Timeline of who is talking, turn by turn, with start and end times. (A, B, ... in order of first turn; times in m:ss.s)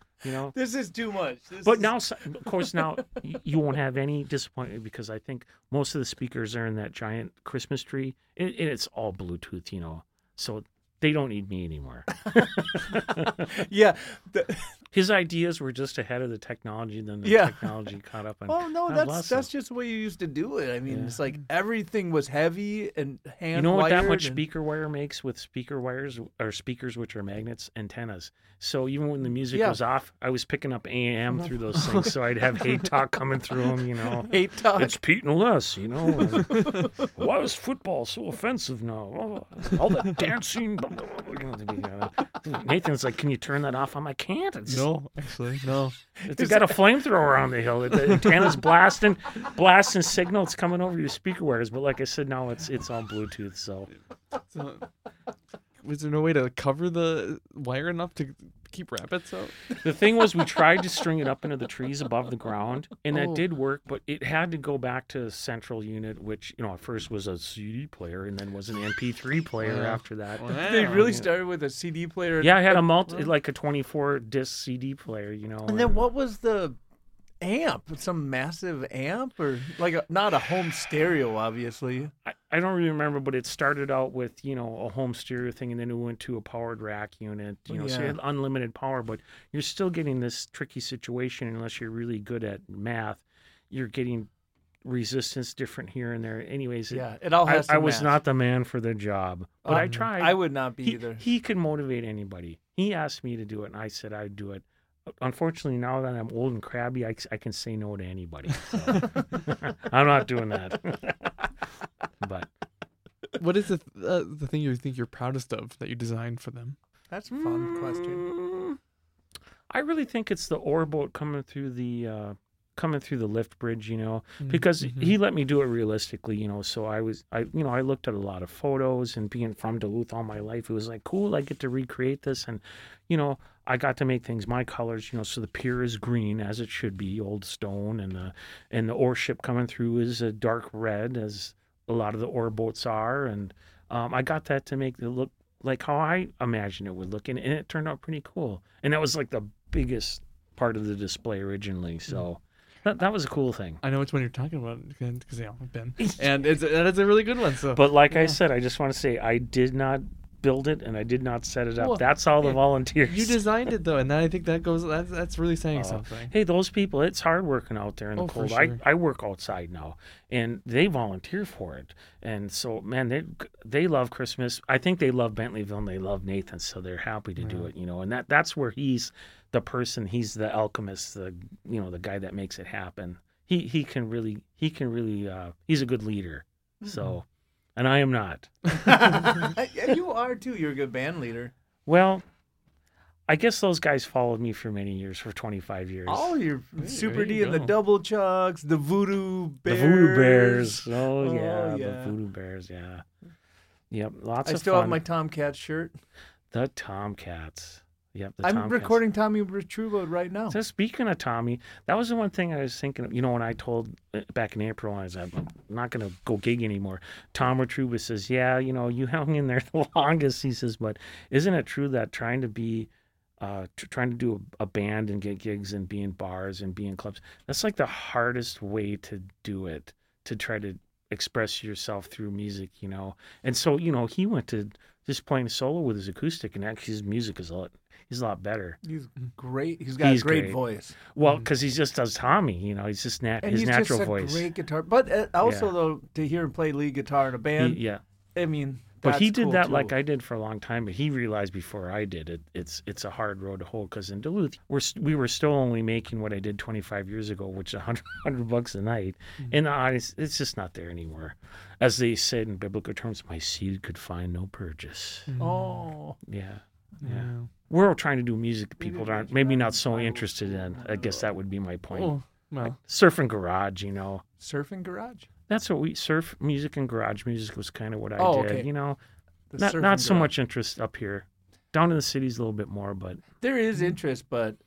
0:00.2-0:00.6 A
0:00.5-0:03.0 B
0:01.6-0:13.5 A
0:12.8-0:14.7 B
0:14.9-0:19.5 A
0:17.2-0:17.7 B
0:18.5-0:24.4 B
0:20.9-0:21.2 A
0:23.5-0:44.9 A
0:29.5-0:29.8 B
0:34.2-0:35.0 B
0:36.1-0:37.1 B
0:44.7-0:46.0 C
0:46.3-0:53.9 A
0:46.3-0:46.7 B
0:54.5-0:54.9 C
0:55.8-0:59.6 C
0:59.8-1:11.3 A
1:09.6-1:11.1 C
1:10.6-1:13.2 B
1:12.4-1:16.1 A
1:15.7-1:16.8 B
1:17.4-1:22.1 B
1:22.3-1:34.3 A
1:27.7-1:28.2 B
1:34.8-1:51.5 A
1:36.9-1:38.2 B
1:39.6-1:41.2 B
1:39.7-1:40.0 C
1:52.2-1:52.5 A
1:53.4-1:56.8 C
1:57.1-1:58.2 B
1:57.4-1:58.8 A
1:59.7-2:33.8 A
2:04.4-2:05.1 C
2:33.8-2:38.4 C
2:37.7-2:43.4 A
2:41.8-2:46.3 C
2:45.8-3:08.7 A
2:48.2-2:48.8 C
2:57.4-2:57.7 C
3:08.7-3:11.5 B
3:11.9-3:12.2 A
3:13.3-3:16.4 A
3:16.1-3:22.1 B
3:16.8-3:17.7 C
3:19.7-3:23.0 A
3:23.9-3:25.0 A
3:24.4-3:25.9 B
3:26.5-3:29.0 A
3:28.4-3:30.6 B
3:30.5-3:58.8 A
3:58.8-4:01.0 B
4:00.0-4:04.5 A
4:03.4-4:07.8 B
4:05.4-4:05.7 A
4:07.6-4:08.0 A
4:08.4-4:09.9 B
4:09.0-4:25.3 A
4:25.3-4:25.8 C
4:25.4-4:26.2 B
4:26.2-4:34.2 A
4:27.0-4:27.5 C
4:28.8-4:31.3 B
4:31.9-4:32.8 C
4:34.4-4:35.3 B
4:35.5-4:39.0 A
4:38.2-4:38.7 B
4:39.5-4:40.3 B
4:39.6-4:43.2 A
4:43.4-4:44.6 B